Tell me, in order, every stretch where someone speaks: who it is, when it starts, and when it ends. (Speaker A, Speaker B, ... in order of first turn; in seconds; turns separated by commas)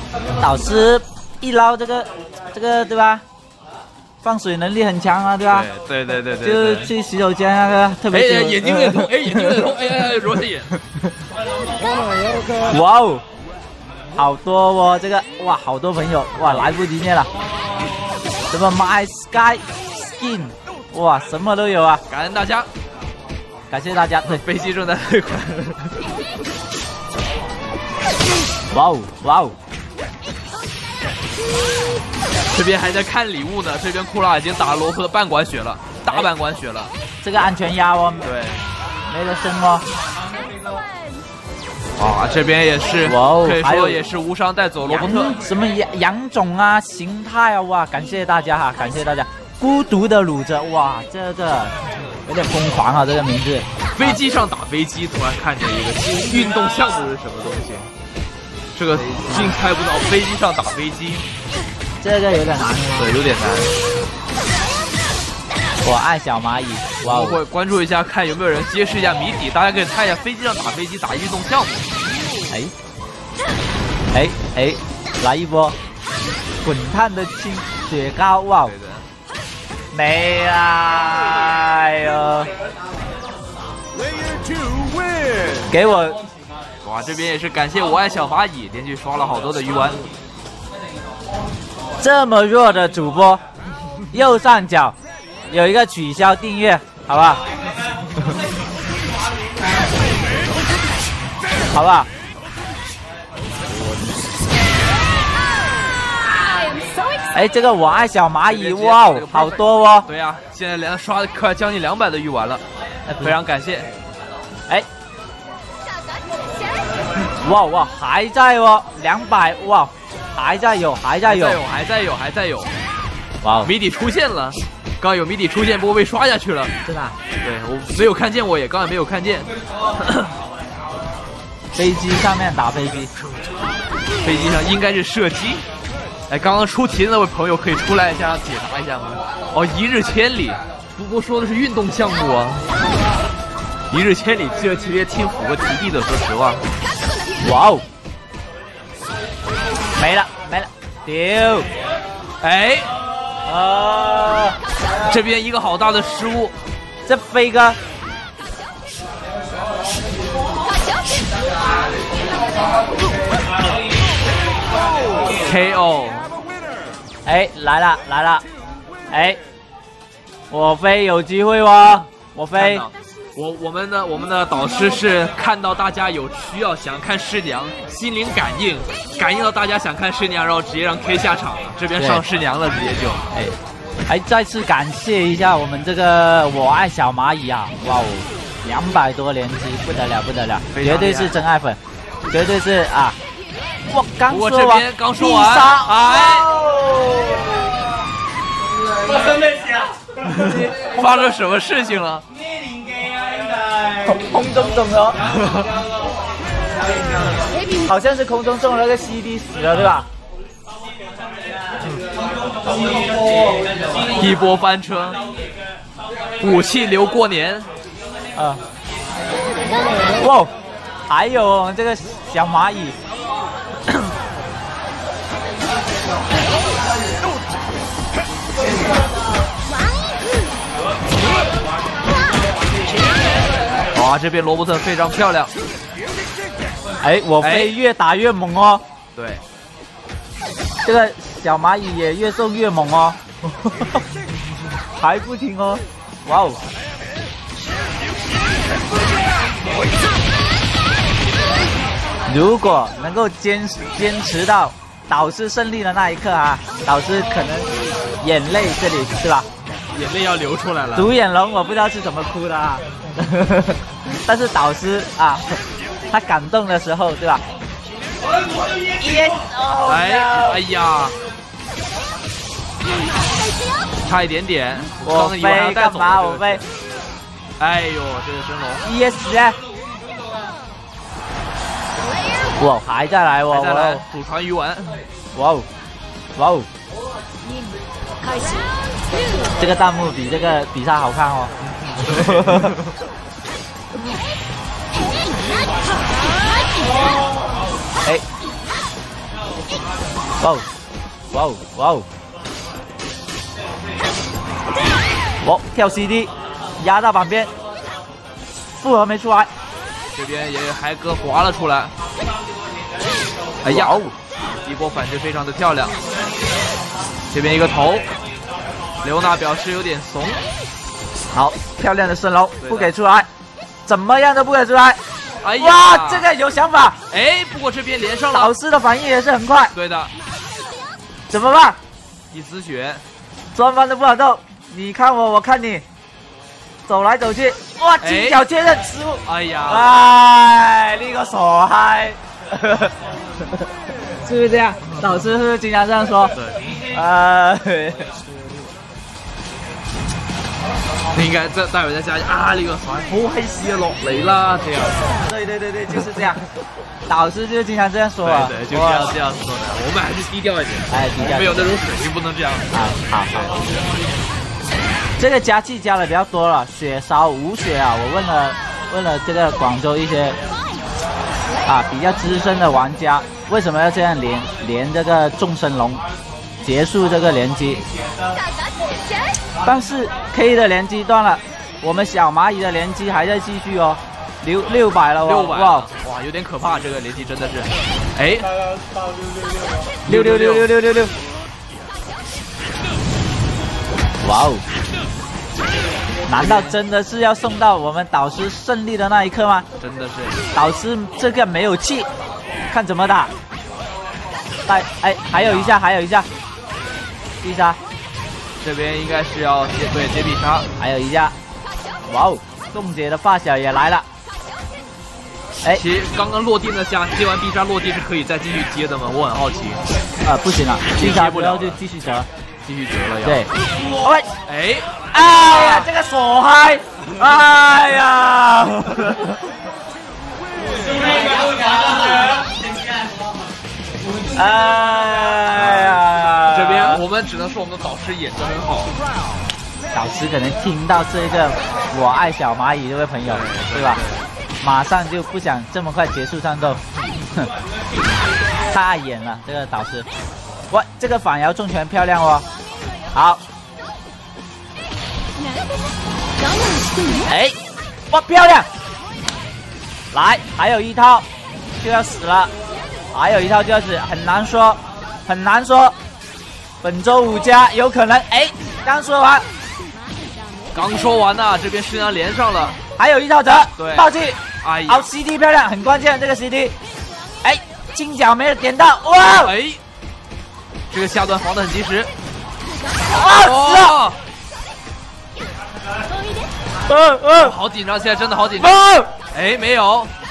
Speaker A: 0.4-3.2, Speaker A: 4.2-5.7, Speaker B: 5.5-6.9, Speaker A: 6.4-9.8, Speaker B: 8.1-10.7, Speaker A: 12.7-13.2, Speaker A: 14.2-17.3, Speaker B: 16.4-16.7, Speaker A: 18.5-22.0, Speaker B: 22.1-22.7, Speaker A: 23.7-24.4, Speaker B: 24.2-26.0, Speaker A: 28.7-29.6, Speaker B: 32.5-36.9, Speaker A: 37.2-38.3, Speaker B: 38.2-38.6, Speaker A: 39.1-39.9, Speaker B: 42.0-45.4, Speaker A: 43.0-44.0, Speaker A: 44.8-51.7, Speaker A: 52.3-54.2, Speaker B: 54.0-57.9, Speaker B: 58.7-61.3, Speaker A: 62.0-63.1, Speaker B: 63.0-63.7, Speaker A: 65.8-67.4, Speaker B: 67.0-71.9, Speaker A: 74.1-75.8, Speaker A: 76.6-78.7, Speaker B: 78.6-79.1, Speaker A: 79.9-82.5, Speaker A: 85.7-86.2, Speaker B: 86.8-90.0, Speaker A: 92.0-93.4, Speaker A: 94.1-95.0, Speaker A: 95.5-97.4, Speaker A: 101.7-102.1, Speaker A: 107.3-110.1, Speaker B: 108.5-112.6, Speaker A: 113.1-113.4, Speaker B: 113.2-113.9, Speaker A: 117.4-121.6, Speaker B: 121.2-122.7, Speaker A: 123.4-123.7, Speaker B: 123.6-126.7, Speaker A: 126.8-127.2, Speaker B: 127.4-130.3, Speaker A: 131.8-133.1, Speaker B: 134.2-135.7, Speaker B: 136.3-142.7, Speaker B: 143.9-146.6, Speaker A: 147.4-147.8, Speaker A: 150.0-151.7, Speaker B: 152.4-152.9, Speaker A: 153.5-154.6, Speaker B: 155.1-156.5, Speaker A: 157.1-157.8, Speaker B: 165.4-166.3, Speaker A: 167.2-168.4, Speaker A: 169.1-169.4, Speaker A: 170.5-172.9, Speaker B: 172.6-183.2, Speaker A: 182.0-182.2, Speaker A: 184.1-191.8, Speaker B: 190.7-191.3, Speaker A: 192.3-193.2, Speaker A: 193.9-197.8, Speaker B: 194.3-196.5, Speaker B: 200.3-202.2, Speaker A: 204.1-205.2, Speaker B: 205.4-205.7, Speaker A: 207.8-210.1, Speaker B: 214.1-215.2, Speaker B: 216.4-217.7, Speaker A: 218.4-218.6, Speaker A: 220.2-220.5, Speaker A: 221.1-223.0, Speaker B: 233.9-235.5, Speaker A: 237.0-238.8, Speaker B: 237.4-237.7, Speaker B: 239.2-239.4, Speaker A: 240.8-243.9, Speaker A: 245.0-246.6, Speaker A: 252.3-257.7, Speaker A: 258.2-259.5, Speaker B: 259.9-261.1, Speaker A: 260.9-265.6, Speaker A: 266.1-267.4, Speaker A: 268.9-270.6, Speaker B: 269.9-271.2, Speaker B: 274.0-276.7, Speaker A: 275.0-276.6, Speaker B: 277.6-278.9, Speaker A: 278.8-279.6, Speaker A: 282.6-284.0, Speaker B: 283.5-285.0, Speaker A: 285.3-285.7, Speaker A: 286.4-286.7, Speaker A: 289.6-291.5, Speaker B: 291.6-292.9, Speaker A: 292.1-292.7, Speaker A: 300.4-300.6, Speaker A: 301.3-302.1, Speaker A: 305.4-307.5, Speaker A: 308.7-309.5, Speaker B: 310.1-311.9, Speaker B: 313.6-314.0, Speaker A: 313.6-314.1, Speaker B: 314.6-316.0, Speaker B: 317.3-318.1, Speaker B: 319.0-320.4, Speaker A: 321.3-323.3, Speaker B: 322.6-322.9, Speaker A: 323.9-325.0, Speaker B: 325.4-326.3, Speaker A: 325.6-327.0, Speaker B: 327.1-328.5, Speaker A: 328.3-329.7, Speaker B: 329.7-330.1, Speaker A: 331.3-331.8, Speaker B: 332.3-333.0, Speaker A: 333.5-335.9, Speaker A: 336.9-343.6, Speaker B: 338.0-338.4, Speaker B: 339.2-339.9, Speaker A: 344.2-346.4, Speaker B: 346.3-346.6, Speaker A: 346.9-348.1, Speaker B: 351.1-355.1, Speaker A: 355.2-356.4, Speaker A: 357.1-359.1, Speaker B: 358.2-362.7, Speaker A: 360.9-361.8, Speaker A: 362.7-363.3, Speaker B: 363.3-363.6, Speaker A: 365.2-370.4, Speaker A: 371.7-376.0, Speaker A: 376.6-377.8, Speaker A: 379.6-385.9, Speaker B: 385.2-388.6, Speaker A: 390.1-391.1, Speaker B: 390.1-390.7, Speaker A: 394.2-394.6, Speaker A: 396.3-399.7, Speaker B: 396.3-396.8, Speaker B: 399.8-400.4, Speaker A: 400.5-402.1, Speaker A: 402.7-403.3, Speaker A: 404.7-406.3, Speaker B: 405.3-405.8, Speaker A: 407.4-407.8, Speaker B: 408.6-410.7, Speaker A: 410.8-411.3, Speaker A: 412.1-414.1, Speaker B: 415.7-419.8, Speaker A: 420.2-422.3, Speaker B: 420.9-421.8, Speaker B: 422.6-423.5, Speaker A: 423.2-423.5, Speaker A: 424.0-424.3, Speaker B: 424.5-424.9, Speaker A: 425.1-429.3, Speaker B: 425.5-425.9, Speaker B: 430.7-431.2, Speaker A: 434.3-437.0, Speaker B: 435.5-438.9, Speaker A: 439.9-444.0, Speaker B: 443.3-444.3, Speaker A: 444.6-446.8, Speaker A: 448.7-450.1, Speaker A: 450.7-452.4, Speaker A: 453.1-453.4, Speaker A: 457.2-457.6, Speaker A: 458.1-458.7, Speaker A: 460.1-461.2, Speaker A: 461.8-462.5, Speaker A: 463.1-465.9, Speaker A: 466.8-469.5, Speaker B: 470.7-472.8, Speaker A: 473.0-476.8, Speaker B: 473.8-475.1, Speaker A: 477.4-479.5, Speaker B: 479.3-479.8, Speaker B: 480.9-482.1, Speaker A: 483.0-484.0, Speaker B: 483.1-484.2, Speaker A: 486.9-487.6, Speaker B: 487.3-490.1, Speaker A: 488.6-489.1